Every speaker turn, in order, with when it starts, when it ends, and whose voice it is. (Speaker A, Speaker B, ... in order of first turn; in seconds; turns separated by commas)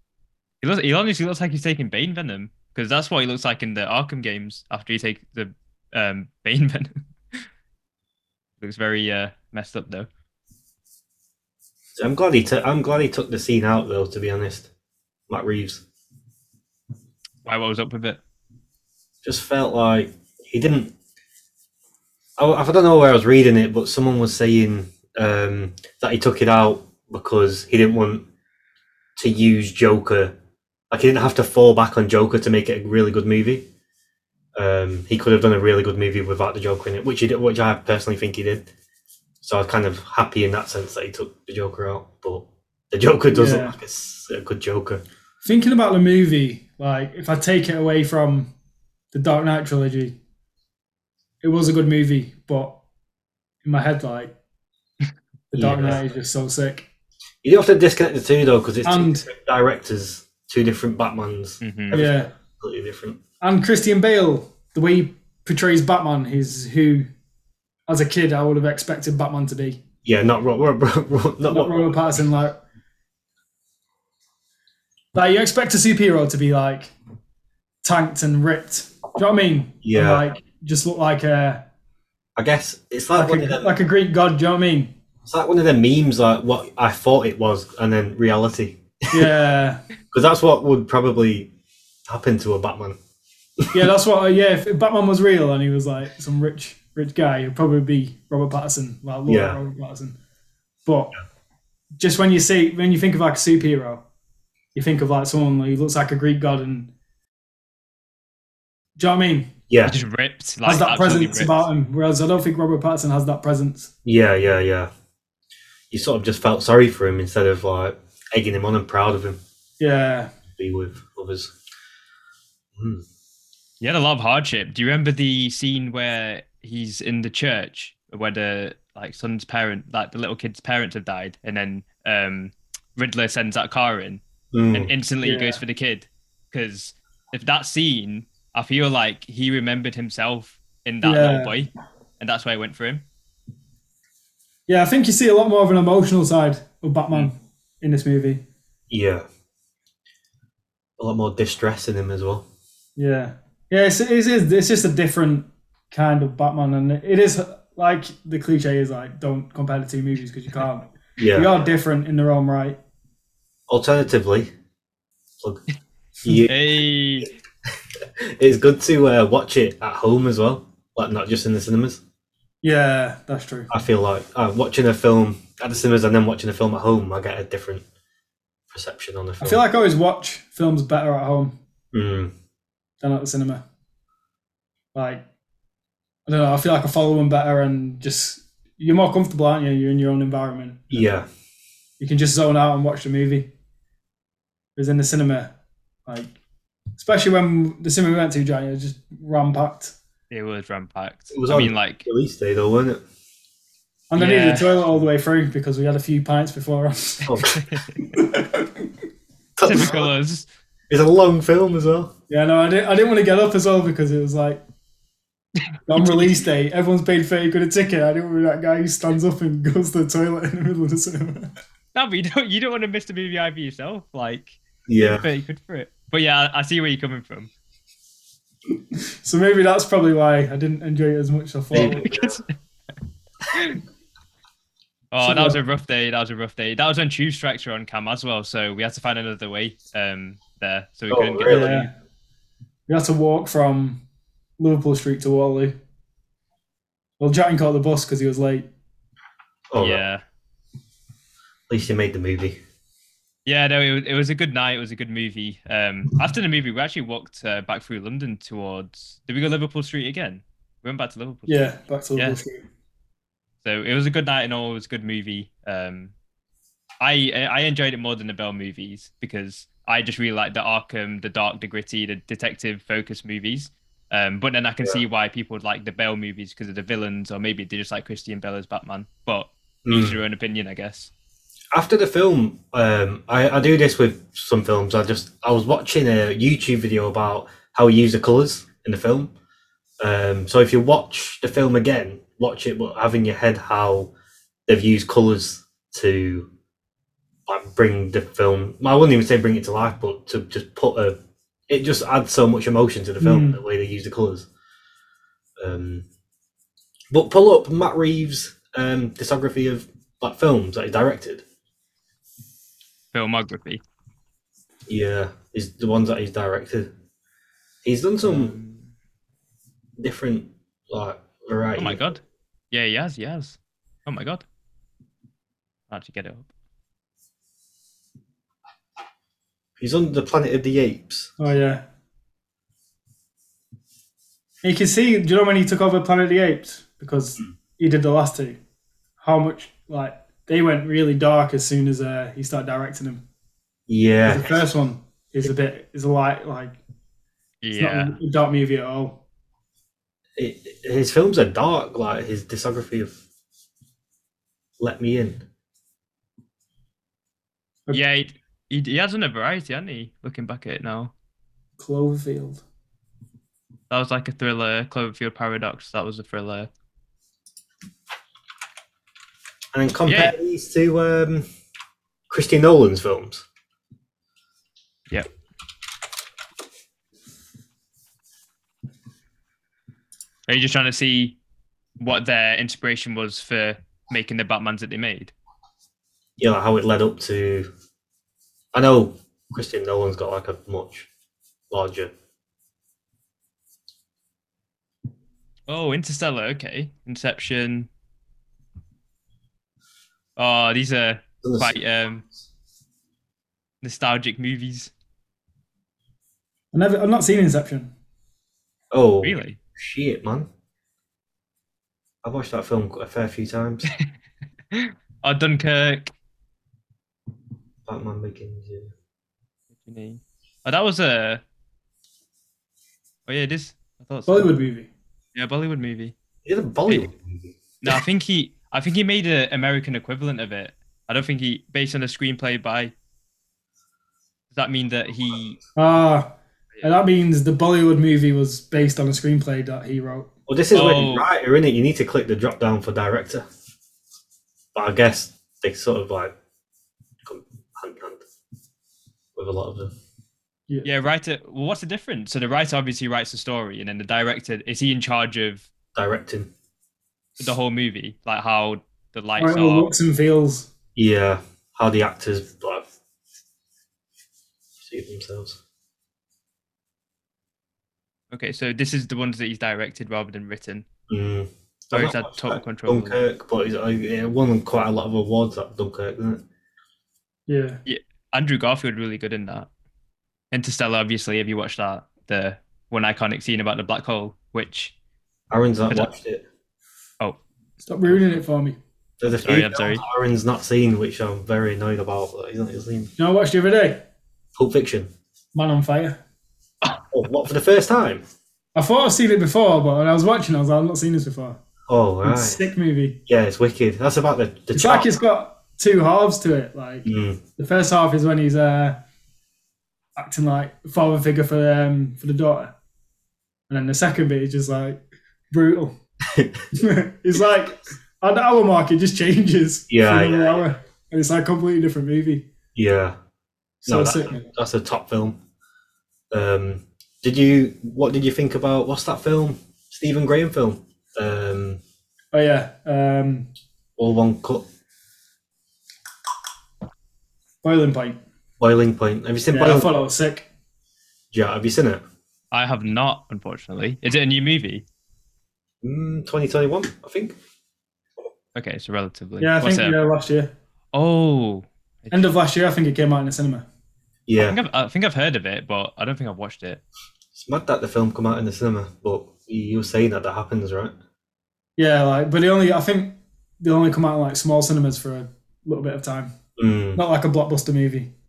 Speaker A: 0.6-7.4, Speaker A: 8.6-10.1, Speaker B: 12.0-14.7, Speaker B: 15.3-15.8, Speaker A: 17.4-18.2, Speaker B: 19.2-20.9, Speaker B: 22.4-28.3, Speaker B: 29.2-30.4, Speaker B: 30.9-33.7, Speaker B: 34.6-38.7, Speaker B: 39.4-45.0, Speaker C: 43.3-43.8, Speaker C: 45.4-48.5, Speaker C: 49.1-50.2, Speaker C: 51.4-52.8, Speaker C: 53.6-54.4, Speaker C: 55.5-56.9, Speaker B: 55.5-56.0, Speaker B: 57.4-63.2, Speaker C: 58.9-59.3, Speaker A: 61.6-62.0, Speaker C: 61.9-62.3, Speaker C: 63.4-67.1, Speaker C: 67.9-69.8, Speaker B: 70.0-72.0, Speaker C: 71.5-72.6, Speaker C: 75.1-76.9, Speaker C: 77.8-81.7, Speaker B: 79.8-80.2, Speaker B: 82.4-83.7, Speaker C: 83.2-85.0, Speaker B: 85.2-89.2, Speaker C: 89.1-89.8, Speaker B: 90.1-91.5, Speaker B: 92.1-93.0, Speaker C: 93.7-100.2, Speaker B: 99.3-99.6, Speaker C: 100.8-101.2, Speaker C: 102.0-104.0, Speaker C: 104.8-106.9, Speaker C: 109.0-109.5, Speaker B: 109.7-110.0, Speaker A: 109.8-111.7, Speaker C: 110.7-113.9, Speaker B: 114.0-114.9, Speaker B: 115.9-119.4, Speaker C: 119.8-120.3, Speaker B: 120.5-121.5, Speaker B: 122.8-123.0, Speaker A: 123.8-134.2, Speaker B: 134.5-134.9, Speaker A: 134.7-143.1, Speaker C: 135.2-135.6, Speaker C: 141.0-141.5, Speaker C: 144.7-148.4, Speaker B: 148.9-149.3, Speaker B: 151.0-152.4, Speaker C: 153.0-162.8, Speaker B: 161.2-161.6, Speaker B: 163.7-164.5, Speaker B: 166.2-166.7, Speaker A: 166.4-167.3, Speaker B: 168.2-172.0, Speaker C: 172.6-173.7, Speaker B: 173.7-177.8, Speaker B: 178.7-179.6, Speaker C: 179.4-181.6, Speaker B: 181.9-182.3, Speaker C: 183.0-183.6, Speaker C: 184.9-185.2, Speaker C: 186.3-191.1, Speaker B: 190.9-191.3, Speaker C: 192.0-193.5, Speaker C: 194.8-195.5, Speaker C: 196.1-196.3, Speaker C: 197.0-199.9, Speaker A: 200.3-202.1, Speaker B: 201.3-203.0, Speaker C: 204.1-207.3, Speaker A: 204.2-204.8, Speaker B: 207.2-207.6, Speaker A: 207.5-207.9, Speaker C: 208.1-208.9, Speaker B: 209.6-210.1, Speaker A: 209.6-210.5, Speaker B: 210.9-212.1, Speaker C: 212.3-214.6, Speaker C: 215.9-221.5, Speaker A: 216.0-216.4, Speaker A: 221.9-227.5, Speaker B: 224.9-225.3, Speaker C: 229.2-232.1, Speaker B: 231.7-232.4, Speaker A: 231.7-232.5, Speaker A: 233.5-233.8, Speaker A: 235.1-241.9, Speaker C: 235.2-235.6, Speaker B: 241.1-241.8, Speaker C: 241.5-241.9, Speaker C: 242.9-244.0, Speaker C: 244.6-245.8, Speaker C: 247.2-248.7, Speaker B: 249.7-250.0, Speaker A: 249.8-250.2, Speaker B: 251.7-252.6, Speaker A: 253.5-262.4, Speaker C: 261.5-262.7, Speaker A: 263.6-266.1, Speaker A: 267.0-281.1, Speaker B: 279.9-280.2, Speaker B: 281.7-289.3, Speaker B: 290.0-294.1, Speaker B: 294.7-296.5, Speaker B: 297.5-301.2, Speaker B: 301.7-304.5, Speaker C: 303.2-303.6, Speaker B: 305.6-306.1, Speaker B: 307.1-311.4, Speaker A: 313.1-313.8, Speaker B: 314.9-316.9, Speaker B: 317.8-318.5, Speaker A: 318.2-318.9, Speaker B: 320.0-322.1, Speaker A: 321.8-322.2, Speaker A: 322.7-324.4, Speaker A: 325.9-326.5, Speaker B: 329.8-331.3, Speaker C: 331.4-331.9, Speaker C: 334.6-338.6, Speaker C: 339.2-343.2, Speaker B: 343.9-344.6, Speaker C: 344.2-346.8, Speaker A: 347.6-348.2, Speaker C: 347.7-349.2, Speaker B: 350.4-353.1, Speaker B: 354.8-355.4, Speaker A: 357.9-361.1, Speaker C: 361.8-362.6, Speaker A: 363.9-366.7, Speaker B: 369.7-371.5, Speaker A: 370.1-370.4, Speaker B: 372.3-373.4, Speaker A: 380.5-381.4, Speaker A: 382.0-385.3, Speaker B: 386.4-387.7, Speaker B: 388.7-391.1, Speaker B: 391.7-392.1, Speaker A: 395.7-397.9, Speaker A: 400.4-402.2, Speaker B: 401.4-401.8, Speaker A: 403.8-404.9, Speaker C: 406.7-407.9, Speaker B: 408.9-410.5, Speaker A: 409.2-409.6, Speaker B: 412.2-413.9, Speaker A: 414.7-416.1, Speaker B: 417.9-418.9, Speaker A: 419.8-421.4, Speaker A: 423.3-424.5, Speaker C: 424.3-424.9, Speaker A: 425.4-426.1, Speaker B: 426.4-428.0, Speaker A: 427.8-432.9, Speaker A: 434.5-435.6, Speaker C: 435.8-436.3, Speaker C: 436.8-440.3, Speaker B: 440.5-443.5, Speaker A: 440.7-441.3, Speaker B: 444.8-446.4, Speaker B: 447.2-448.2, Speaker B: 449.4-449.9, Speaker A: 450.8-455.7, Speaker B: 455.9-456.5, Speaker A: 457.4-459.9, Speaker C: 459.4-460.7, Speaker B: 461.0-462.9, Speaker B: 464.8-465.6, Speaker A: 468.3-470.9, Speaker B: 471.1-476.4, Speaker A: 471.9-473.2, Speaker C: 477.5-477.8, Speaker A: 477.9-479.7, Speaker A: 480.5-484.9, Speaker B: 485.5-486.4, Speaker C: 487.8-488.8, Speaker B: 489.2-493.1, Speaker A: 489.2-490.0, Speaker C: 493.2-494.0, Speaker B: 494.6-495.1, Speaker C: 495.5-496.2, Speaker B: 497.1-498.2, Speaker C: 498.8-501.6, Speaker B: 501.9-502.6, Speaker C: 502.2-503.2, Speaker B: 503.3-505.1, Speaker C: 504.7-509.0, Speaker B: 507.1-507.4, Speaker C: 510.2-512.7, Speaker C: 513.7-516.0, Speaker B: 516.3-516.6, Speaker C: 516.7-522.5, Speaker B: 519.9-520.6, Speaker B: 522.8-523.2, Speaker C: 523.8-524.5, Speaker B: 523.9-525.4, Speaker B: 526.3-531.8, Speaker C: 532.3-533.5, Speaker B: 534.0-534.6, Speaker C: 537.6-538.2, Speaker B: 538.6-539.9, Speaker C: 539.5-540.5, Speaker B: 541.3-542.0, Speaker A: 542.5-544.9, Speaker B: 545.8-547.4, Speaker A: 548.5-550.0, Speaker C: 549.4-550.5, Speaker A: 550.9-552.2, Speaker C: 552.1-553.7, Speaker B: 554.3-554.6, Speaker A: 554.4-556.8, Speaker B: 557.3-560.9, Speaker C: 561.8-566.3, Speaker B: 566.6-567.0, Speaker C: 567.0-568.1